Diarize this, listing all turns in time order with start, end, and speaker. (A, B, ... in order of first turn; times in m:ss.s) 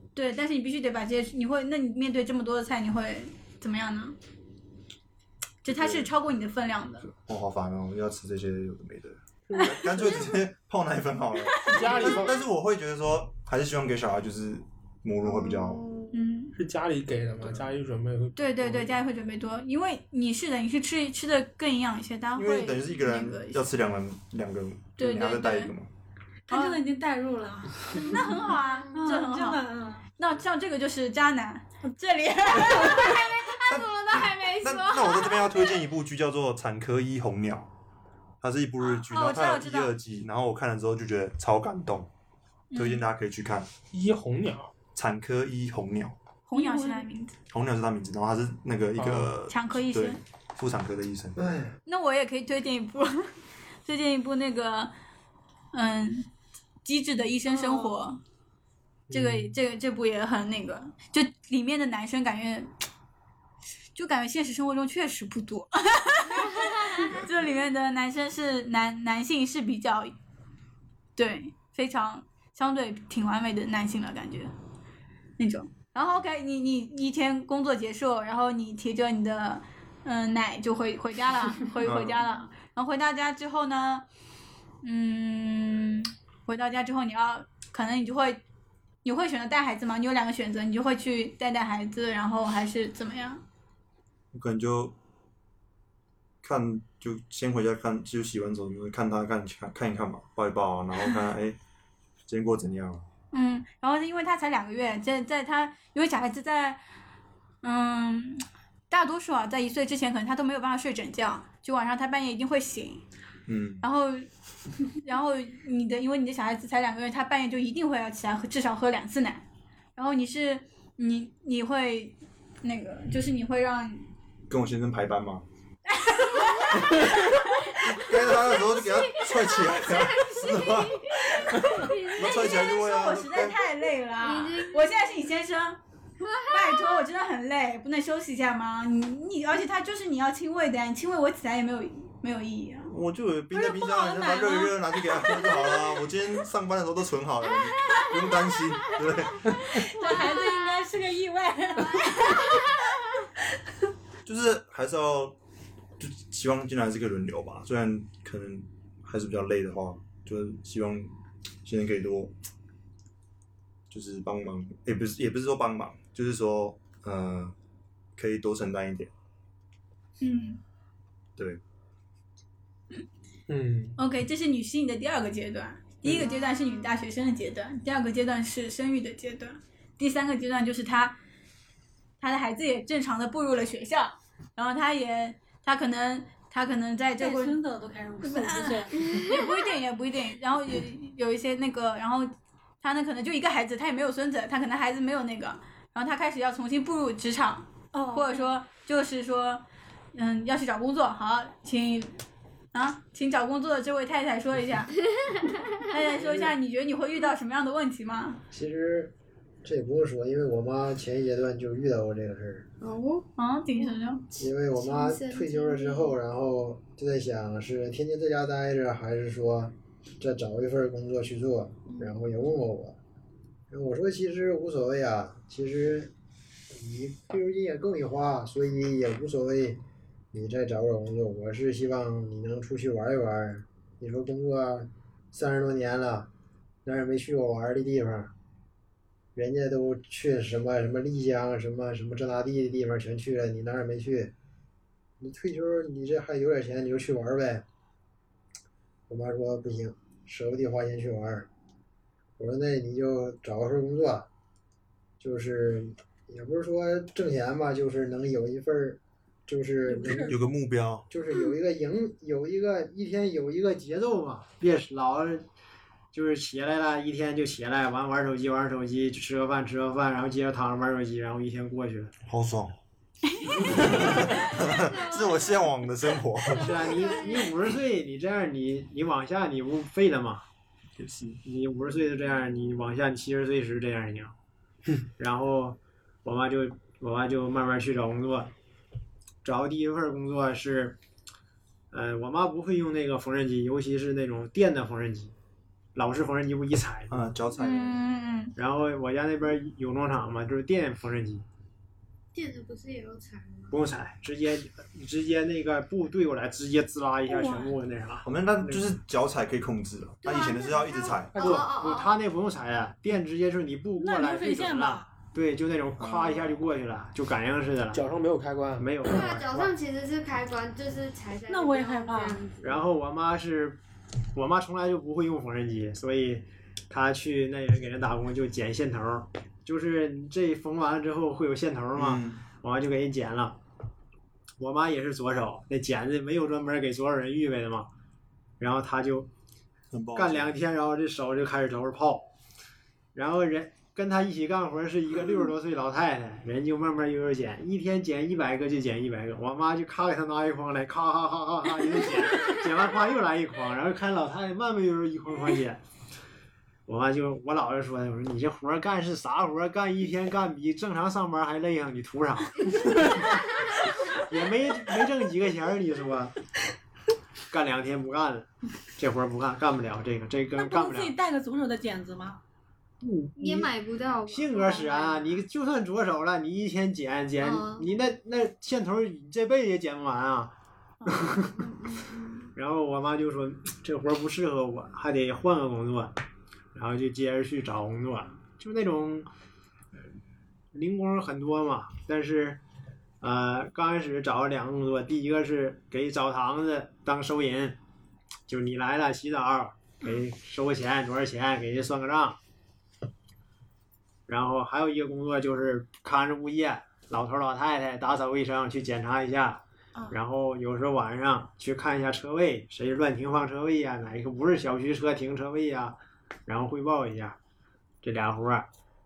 0:00.2-0:04.2 A
0:05.6-0:07.1 A
0:05.7-0:06.1 B
0:07.1-0:15.8 B
0:09.5-0:10.1 C
0:11.6-0:12.0 A
0:11.6-0:12.4 C
0:15.2-0:16.2 D
0:16.1-0:16.6 A
0:16.6-0:19.0 C
0:18.4-0:23.6 A
0:22.4-0:25.9 B
0:25.0-0:25.7 A
0:26.5-0:28.2 E
0:26.5-0:26.8 A
0:27.9-0:29.6 A
0:28.2-0:29.2 D
0:28.9-0:30.0 E
0:30.2-0:33.2 A
0:32.7-0:35.8 D
0:33.6-0:37.7 B
0:38.4-0:42.1 B
0:38.8-0:39.9 A
0:42.7-0:43.0 A
0:42.7-0:43.7 B
0:43.9-0:44.7 C
0:45.0-0:46.2 B
0:46.5-0:47.3 A
0:46.5-0:47.1 E
0:47.5-0:51.4 B
0:49.0-0:49.3 C
0:49.5-0:50.2 A
0:51.4-0:51.7 F
0:51.9-0:53.3 A
0:53.8-0:54.9 A
0:55.7-0:56.3 A
0:56.8-0:58.2 A
0:57.5-0:58.0 E
0:59.1-0:59.5 C
0:59.1-1:02.7 A
1:04.0-1:10.1 A
1:11.2-1:14.5 A
1:15.4-1:24.0 A
1:21.8-1:22.2 B
1:24.8-1:28.4 A
1:29.0-1:33.4 A
1:34.3-1:35.0 B
1:36.4-1:41.6 B
1:42.3-1:43.1 B
1:43.3-1:46.8 A
1:47.6-1:53.0 A
1:53.5-1:53.8 B
1:53.8-1:54.3 A
1:55.0-1:59.4 A
2:00.0-2:04.1 A
2:04.5-2:05.4 B
2:05.9-2:08.1 A
2:06.8-2:07.2 B
2:07.8-2:13.6 B
2:08.1-2:12.9 D
2:11.6-2:15.8 A
2:14.2-2:15.3 D
2:16.2-2:17.0 D
2:16.4-2:22.9 A
2:22.9-2:29.9 B
2:23.5-2:24.8 E
2:29.6-2:32.6 E
2:30.0-2:30.9 D
2:34.2-2:35.4 B
2:36.0-2:42.4 B
2:43.9-2:47.6 B
2:48.2-2:49.1 B
2:50.2-2:50.6 A
2:53.5-2:53.9 C
2:54.0-3:01.2 A
3:02.2-3:07.6 A
3:07.2-3:09.0 E
3:08.2-3:19.6 A
3:17.9-3:18.5 E
3:20.1-3:22.2 A
3:22.7-3:25.0 A
3:25.8-3:28.4 A
3:26.2-3:26.5 F
3:28.5-3:32.7 F
3:32.8-3:36.2 D
3:33.4-3:34.2 A
3:34.4-3:43.0 F
3:41.9-3:42.2 D
3:43.7-3:46.1 F
3:46.7-3:49.8 F
3:50.3-3:56.3 F
3:56.8-3:58.3 F
3:59.4-4:04.3 F
4:05.2-4:07.6 F
4:09.1-4:11.5 F
4:12.4-4:14.3 F
4:15.2-4:20.3 F
4:19.8-4:20.4 E
4:20.2-4:21.1 B
4:21.1-4:25.5 F
4:26.1-4:32.1 F
4:32.3-4:32.8 B
4:33.3-4:34.1 A
4:33.5-4:36.9 B
4:34.0-4:37.6 D
4:36.6-4:40.4 F
4:41.0-4:41.4 B
4:41.4-4:44.4 F
4:45.2-4:48.5 F
4:49.4-4:51.0 F
4:51.9-4:55.3 F
4:56.0-4:57.3 F
4:57.1-4:58.0 B
4:57.6-4:58.5 A
4:58.6-5:01.5 F
5:02.3-5:03.8 D
5:03.7-5:09.0 F
5:07.3-5:07.7 E
5:08.2-5:11.5 B
5:10.2-5:12.2 D
5:11.4-5:18.0 F
5:14.0-5:15.1 E
5:16.0-5:16.5 B
5:18.0-5:18.8 C
5:18.8-5:19.7 F
5:19.0-5:22.8 D
5:21.5-5:22.4 E
5:22.6-5:23.8 F
5:24.3-5:33.6 F
5:32.0-5:32.4 B
5:34.6-5:37.9 F
5:38.6-5:39.3 F
5:39.9-5:40.6 B
5:40.2-5:42.3 F
5:43.2-5:55.8 F
5:56.9-6:03.2 F
6:04.1-6:06.4 F
6:07.5-6:11.2 F
6:10.6-6:12.4 E
6:13.0-6:13.7 F
6:13.4-6:15.4 D
6:14.3-6:21.7 F
6:17.4-6:17.9 D
6:21.0-6:21.3 E
6:21.6-6:22.5 D
6:22.6-6:26.2 F
6:26.7-6:29.3 F
6:30.7-6:32.6 F
6:33.2-6:37.8 F
6:38.5-6:42.4 F
6:44.3-6:57.4 F
6:58.0-6:58.7 F